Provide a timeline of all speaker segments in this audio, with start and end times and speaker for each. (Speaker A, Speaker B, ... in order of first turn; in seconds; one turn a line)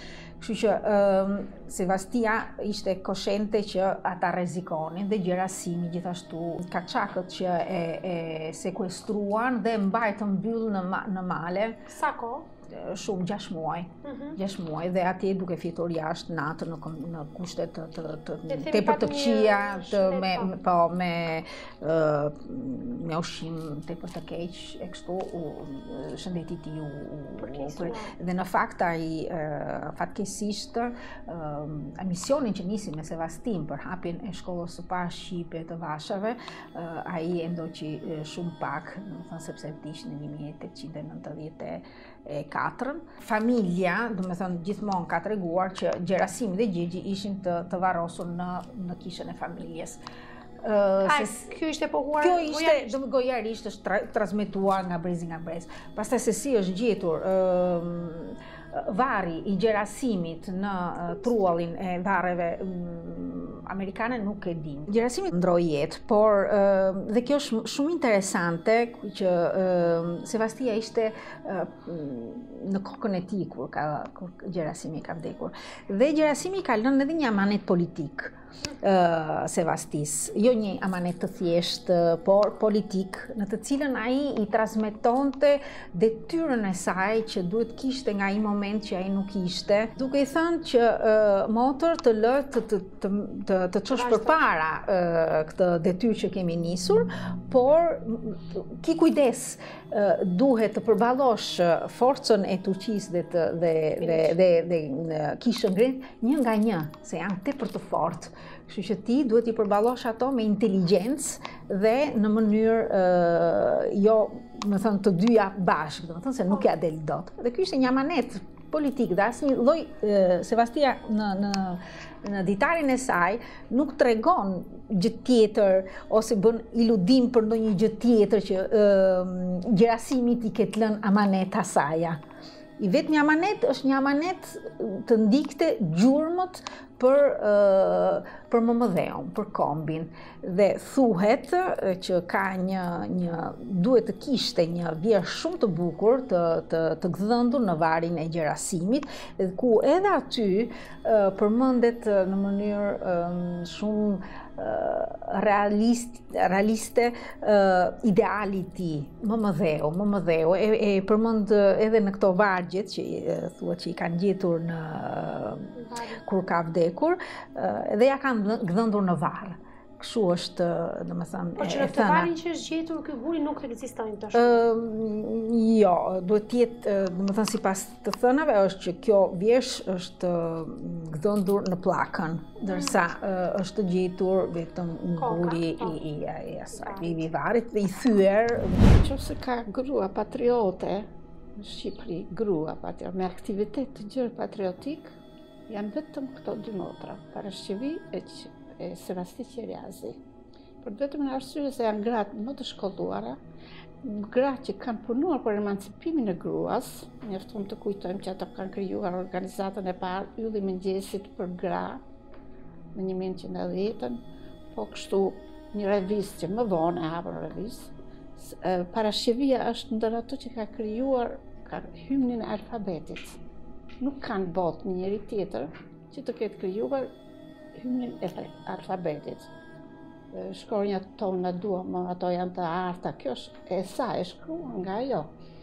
Speaker A: 0.4-11.9
Speaker B: 11.9-12.5
Speaker A: 12.7-50.0
Speaker B: 14.1-14.4
Speaker B: 18.5-20.6
Speaker B: 27.4-28.1
Speaker A: 50.6-51.5
Speaker B: 51.0-53.0
Speaker A: 52.2-132.2
Speaker B: 93.9-94.4
Speaker B: 104.0-104.3
Speaker A: 132.8-172.3
Speaker B: 165.8-166.2
Speaker B: 171.6-174.7
Speaker A: 174.3-189.0
Speaker B: 182.7-183.0
Speaker B: 185.2-186.0
Speaker B: 186.7-187.2
Speaker C: 188.9-195.2
Speaker C: 195.7-200.2
Speaker C: 200.8-203.4
Speaker C: 204.0-212.0
Speaker C: 212.9-214.2
Speaker C: 214.7-223.4
Speaker C: 224.0-227.1
Speaker C: 227.8-229.5
Speaker C: 230.3-235.3